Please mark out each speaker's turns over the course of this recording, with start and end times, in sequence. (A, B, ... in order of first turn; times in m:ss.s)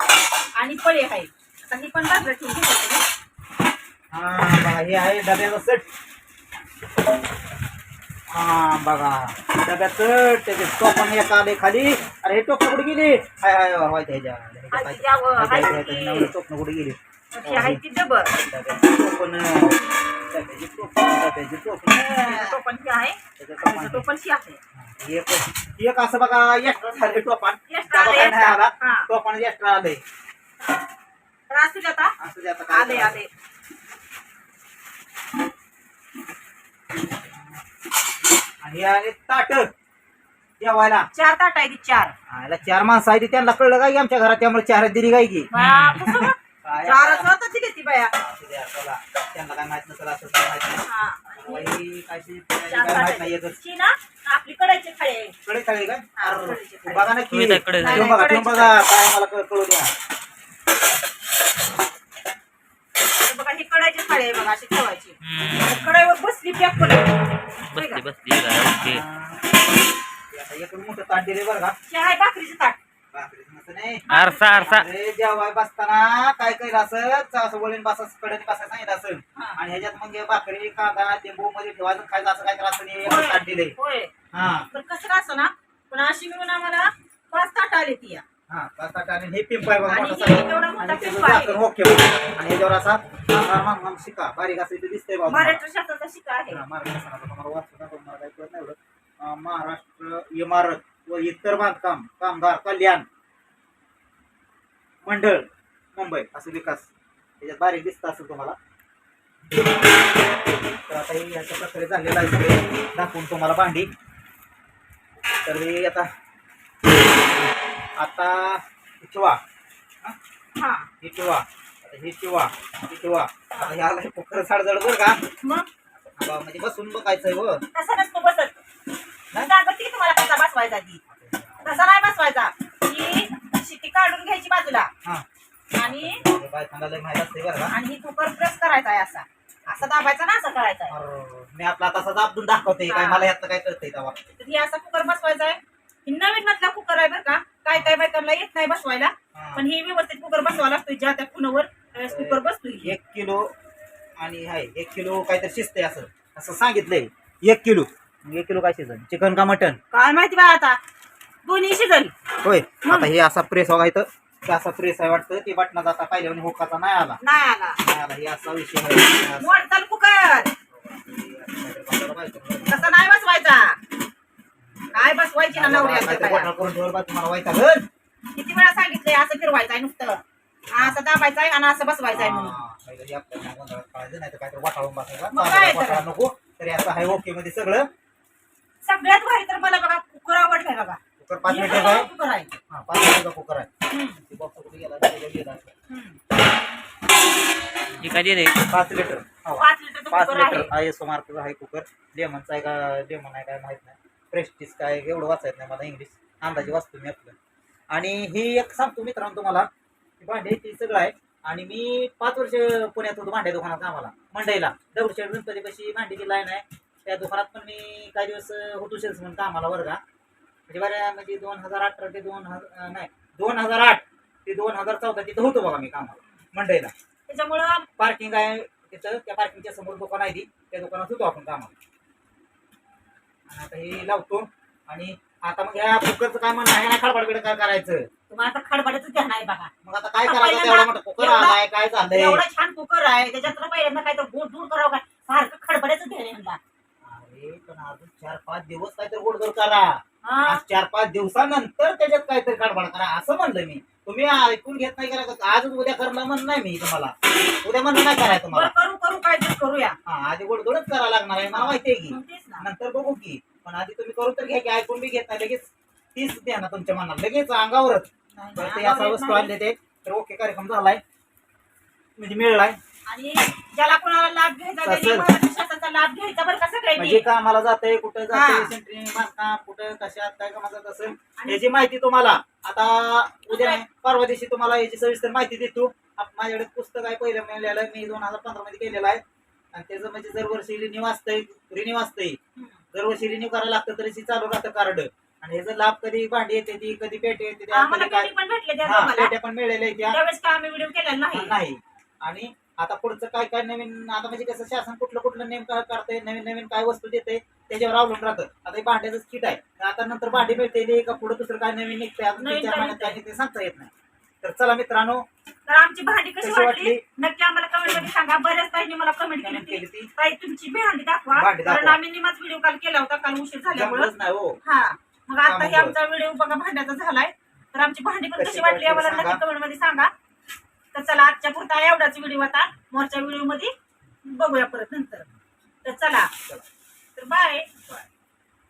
0:00.6-0:03.0 A
0:04.1-0:05.8 B
0:08.3-0:17.8 B
0:14.7-0:16.3 A
0:17.3-0:18.3 A
0:18.3-0:22.6 B
0:21.9-0:24.6 A
0:23.4-0:24.0 B
0:24.7-0:30.0 B
0:27.7-0:29.1 A
0:31.5-0:32.1 A
0:32.2-0:33.2 B
0:32.7-0:33.3 A
0:38.6-0:39.7 B
0:40.6-0:41.1 B
0:41.1-0:42.1 A
0:42.3-0:47.3 B
0:45.5-0:48.1 A
0:45.5-0:46.1 C
0:48.2-0:53.6 B
0:50.8-0:51.7 A
0:52.7-0:55.3 A
0:55.4-0:59.9 B
0:56.2-0:57.1 A
0:57.3-0:58.1 C
0:57.7-0:58.8 A
1:03.2-1:07.2 A
1:05.2-1:05.9 C
1:07.6-1:09.0 C
1:07.7-1:08.0 A
1:08.8-1:09.6 B
1:10.3-1:11.8 B
1:11.9-1:12.8 A
1:13.1-1:23.8 B
1:14.1-1:14.7 A
1:14.1-1:14.9 C
1:23.0-1:24.1 A
1:24.3-1:24.7 B
1:24.7-1:28.2 A
1:28.5-1:35.6 B
1:29.8-1:31.6 A
1:35.3-1:36.6 A
1:36.5-1:43.0 B
1:45.0-1:46.9 B
1:47.4-1:48.6 B
1:50.9-1:53.9 B
1:55.4-1:56.1 B
1:57.4-1:59.4 B
2:00.6-2:00.9 A
2:01.0-2:05.2 B
2:05.4-2:05.7 A
2:06.1-2:07.6 B
2:07.7-2:08.6 A
2:09.3-2:11.0 A
2:11.1-2:11.8 B
2:11.6-2:14.9 A
2:15.7-2:16.2 A
2:15.8-2:17.7 B
2:17.7-2:20.9 A
2:20.9-2:24.2 B
2:22.9-2:23.3 A
2:24.4-2:33.0 A
2:29.3-2:29.7 B
2:32.0-2:33.5 B
2:34.2-2:39.8 B
2:39.9-2:40.8 A
2:41.4-2:42.1 A
2:42.4-2:47.2 B
2:42.8-2:43.1 A
2:47.2-2:47.8 A
2:47.8-2:49.6 B
2:49.4-2:50.5 A
2:50.7-2:52.9 B
2:52.7-2:53.8 A
2:54.6-2:57.8 B
2:54.9-2:56.5 A
2:58.3-3:02.6 A
3:02.1-3:07.9 B
3:05.3-3:06.0 A
3:08.8-3:12.5 A
3:11.2-3:12.1 B
3:12.7-3:13.7 B
3:13.9-3:14.2 A
3:14.2-3:15.7 B
3:15.9-3:16.2 A
3:18.0-3:18.6 C
3:18.7-3:27.4 B
3:19.6-3:20.7 A
3:26.5-3:26.7 A
3:27.9-3:29.7 B
3:30.2-3:40.0 B
3:40.7-3:46.9 B
3:47.3-3:47.9 A
3:48.0-3:51.7 B
3:53.5-3:58.1 B
3:58.3-3:59.7 A
3:59.8-4:02.4 B
4:00.2-4:06.6 A
4:07.0-4:18.7 B
4:10.2-4:10.6 A
4:18.5-4:20.0 A
4:20.0-4:31.0 B
4:21.5-4:22.7 A
4:28.3-4:29.5 A
4:32.2-4:32.8 B
4:33.1-4:37.2 A
4:34.8-4:35.3 B
4:37.0-4:49.2 B
4:38.3-4:38.7 A
4:41.4-4:41.6 A
4:43.5-4:43.8 A
4:49.7-4:52.4 B
4:52.6-4:52.8 A
4:52.9-4:58.3 B
4:57.7-4:59.3 A
4:58.8-5:00.2 B
5:00.1-5:01.6 A
5:01.3-5:15.2 B
5:12.4-5:13.2 A
5:15.7-5:24.1 A
5:16.4-5:17.0 B
5:19.4-5:20.1 B
5:21.3-5:22.0 B
5:23.7-5:24.6 B
5:24.6-5:30.1 A
5:25.4-5:25.9 B
5:28.4-5:29.4 B
5:30.9-5:35.3 A
5:35.8-5:36.3 A
5:37.2-5:37.7 A